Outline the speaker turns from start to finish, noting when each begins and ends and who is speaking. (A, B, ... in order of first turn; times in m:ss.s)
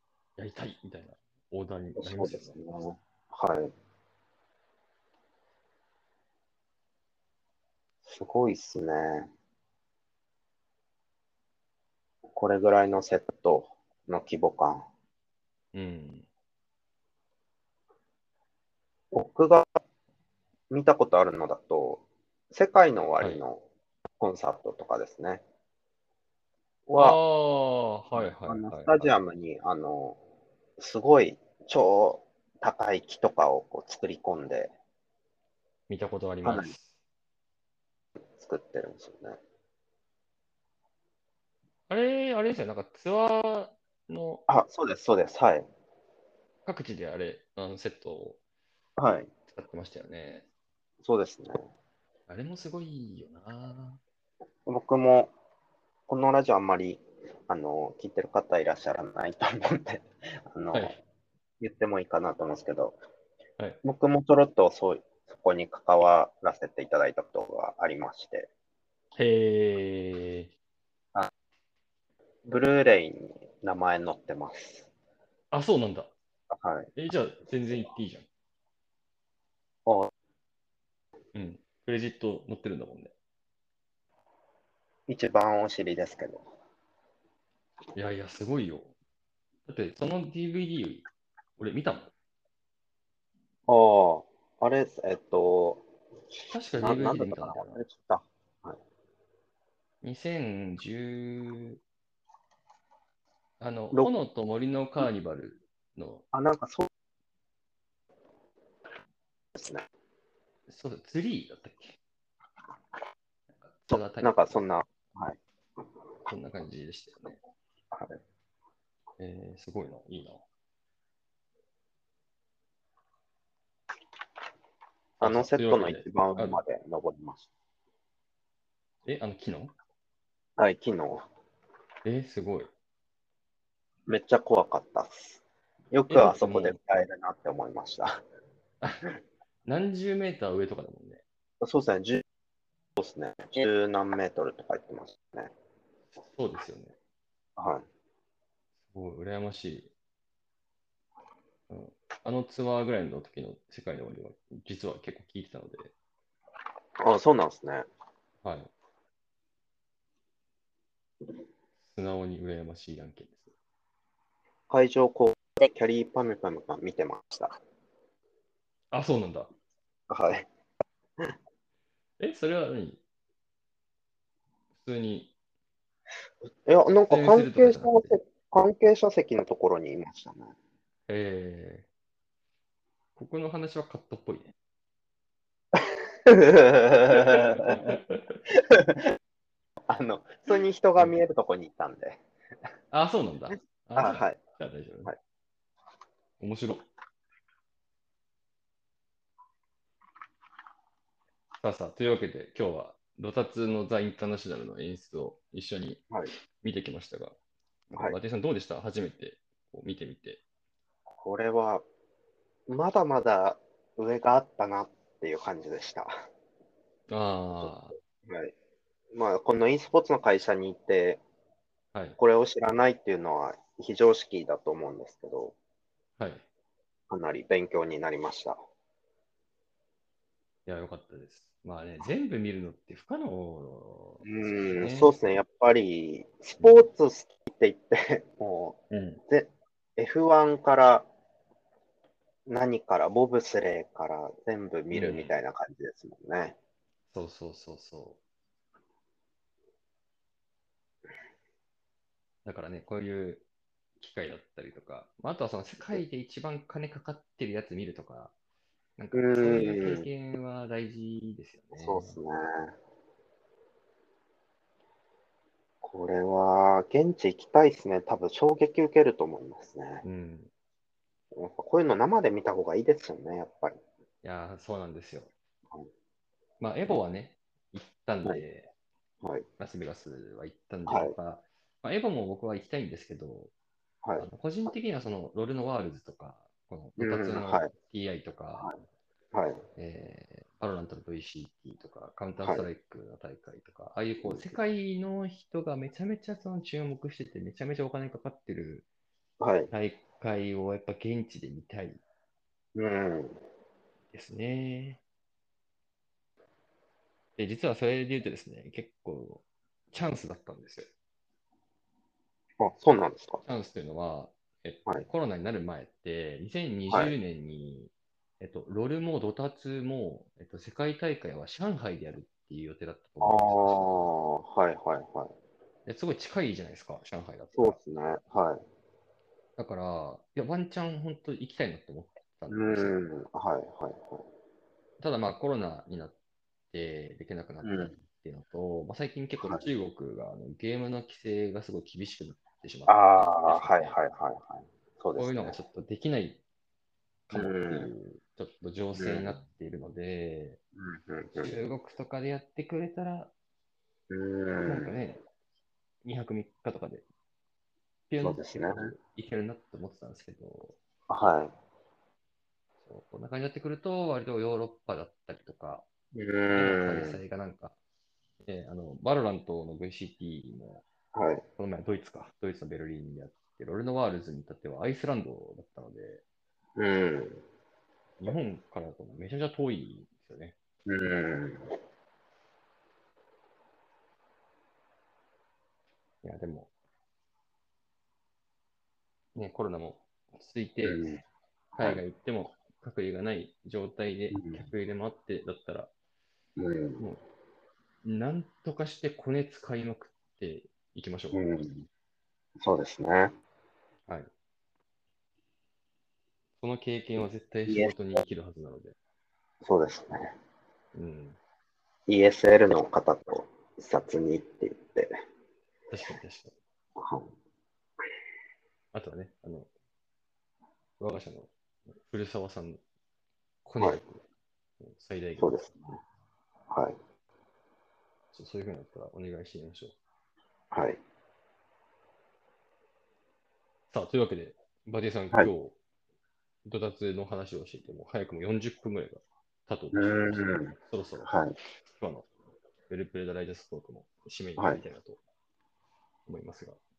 0:00.4-0:02.8 A
0:02.0-0:03.7 B
0:08.0-0:09.3 B
0:12.3-0:14.9 B
0:15.7-0:16.3 A
0:19.1-0:19.8 B
0:20.7-0:23.6 B
0:24.2-0:25.4 B
0:26.9-0:27.2 B
0:27.0-0:29.2 A
0:28.1-0:30.2 B
0:30.8-0:34.7 B
0:35.9-0:36.9 A
0:36.4-0:36.7 B
0:38.4-0:39.4 B
0:41.9-0:44.4 A
0:44.5-0:45.7 B
0:46.6-0:48.4 A
0:49.0-0:49.3 B
0:49.5-0:50.4 A
0:51.0-0:51.7 B
0:52.3-0:54.0 A
0:54.6-0:55.3 B
0:56.1-1:01.0 B
1:01.6-1:03.0 B
1:03.8-1:08.5 B
1:09.2-1:10.5 A
1:12.4-1:14.9 B
1:15.5-1:16.1 A
1:16.5-1:16.9 B
1:17.0-1:18.3 A
1:19.8-1:20.1 B
1:21.3-1:23.1 A
1:25.1-1:26.5 B
1:27.9-1:28.9 A
1:29.6-1:31.0 A
1:31.6-1:32.1 A
1:33.7-1:35.8 B
1:36.5-1:37.8 A
1:36.8-1:38.8 B
1:40.0-1:41.8 A
1:43.6-1:46.2 A
1:46.3-1:46.9 B
1:49.5-1:49.8 B
1:50.7-1:52.0 A
1:53.6-1:54.7 A
1:53.9-1:55.4 B
1:56.2-1:57.4 A
1:57.9-1:58.2 B
1:59.2-2:00.4 A
2:05.2-2:06.6 A
2:05.2-2:07.5 B
2:09.0-2:09.7 A
2:10.6-2:11.2 B
2:12.0-2:12.7 A
2:14.1-2:18.2 B
2:16.1-2:16.8 A
2:18.8-2:21.2 A
2:21.6-2:22.2 B
2:23.0-2:25.5 B
2:26.1-2:27.0 A
2:27.6-2:27.8 B
2:28.9-2:29.9 A
2:31.7-2:35.9 A
2:37.0-2:37.8 B
2:38.4-2:38.7 A
2:41.8-2:43.5 A
2:44.7-2:47.6 B
2:48.9-2:49.5 A
2:50.1-2:50.5 B
2:52.2-2:53.0 A
2:54.8-2:55.3 A
2:56.6-3:00.5 B
2:57.1-2:58.2 A
3:01.1-3:01.9 A
3:03.2-3:04.5 A
3:05.7-3:08.0 B
3:07.1-3:08.4 A
3:08.5-3:09.0 B
3:09.9-3:12.2 B
3:12.9-3:15.1 A
3:14.0-3:14.4 B
3:16.4-3:16.9 A
3:21.6-3:26.1 A
3:26.6-3:27.4 A
3:27.9-3:30.4 A
3:31.2-3:31.8 B
3:32.7-3:36.1 B
3:37.1-3:38.0 A
3:38.2-3:38.5 B
3:39.1-3:41.2 B
3:42.2-3:45.5 B
3:46.2-3:46.4 A
3:47.1-3:48.6 B
3:50.6-3:55.3 A
3:54.2-4:01.1 B
3:56.6-3:56.8 A
3:58.9-3:59.2 A
4:02.4-4:06.6 B
4:04.9-4:05.3 A
4:07.1-4:08.2 A
4:12.4-4:13.4 A
4:14.0-4:18.3 A
4:19.0-4:22.2 A
4:19.1-4:20.0 B
4:21.7-4:22.7 B
4:25.8-4:30.0 B
4:30.0-4:30.5 A
4:31.3-4:33.8 B
4:34.2-4:35.3 A
4:36.6-4:38.7 A
4:39.6-4:43.5 A
4:40.9-4:41.1 B
4:44.0-4:44.3 B
4:44.2-4:48.7 A
4:47.0-4:47.7 B
4:49.3-4:49.6 B
4:49.8-4:58.8 A
4:52.4-4:52.6 B
4:54.2-4:54.6 B
4:59.4-4:59.7 B
4:59.7-5:02.0 A
5:02.7-5:03.4 B
5:04.1-5:05.0 A
5:07.4-5:10.9 A
5:12.6-5:13.4 B
5:13.4-5:24.1 A
5:23.2-5:25.3 B
5:25.8-5:27.8 A
5:27.6-5:28.6 B
5:29.6-5:33.0 A
5:32.5-5:34.2 B
5:35.0-5:36.2 A
5:36.7-5:44.0 A
5:37.6-5:37.9 B
5:42.9-5:45.6 B
5:45.2-5:46.4 A
5:47.3-5:50.6 A
5:47.3-5:47.9 B
5:49.0-5:49.4 B
5:50.8-5:51.5 B
5:51.3-5:53.3 A
5:54.1-5:54.9 B
5:54.6-5:55.2 A
5:56.0-5:57.0 A
5:58.1-6:00.8 A
5:58.2-5:58.9 B
6:01.1-6:01.5 B
6:02.8-6:05.8 A
6:06.1-6:07.2 B
6:06.5-6:07.8 A
6:08.4-6:10.8 A
6:11.1-6:11.4 B
6:11.6-6:16.2 A
6:16.8-6:17.4 B
6:18.2-6:20.6 A
6:20.8-6:21.7 B
6:26.2-6:26.7 A
6:29.3-6:31.0 A
6:30.8-6:31.2 B
6:31.7-6:32.0 B
6:31.8-6:35.9 A
6:34.3-6:34.6 B
6:36.6-6:37.0 B
6:38.0-6:41.4 A
6:41.3-6:41.9 B
6:42.6-6:43.3 B
6:46.6-6:49.0 A
6:47.2-6:47.9 B
6:49.6-6:50.3 B
6:50.9-6:51.4 A
6:52.1-6:55.1 B
6:55.9-6:56.5 A
6:57.0-6:57.3 B
6:58.9-6:59.7 A
7:01.0-7:02.8 A
7:03.6-7:04.2 A
7:04.8-7:05.8 A
7:05.4-7:06.0 B
7:06.7-7:07.0 B
7:08.3-7:10.0 A
7:10.7-7:11.0 B
7:13.9-7:15.8 A
7:16.6-7:21.3 A
7:19.9-7:21.5 B
7:21.9-7:22.3 A
7:22.9-7:25.2 A
7:24.6-7:24.8 B
7:26.2-7:26.8 A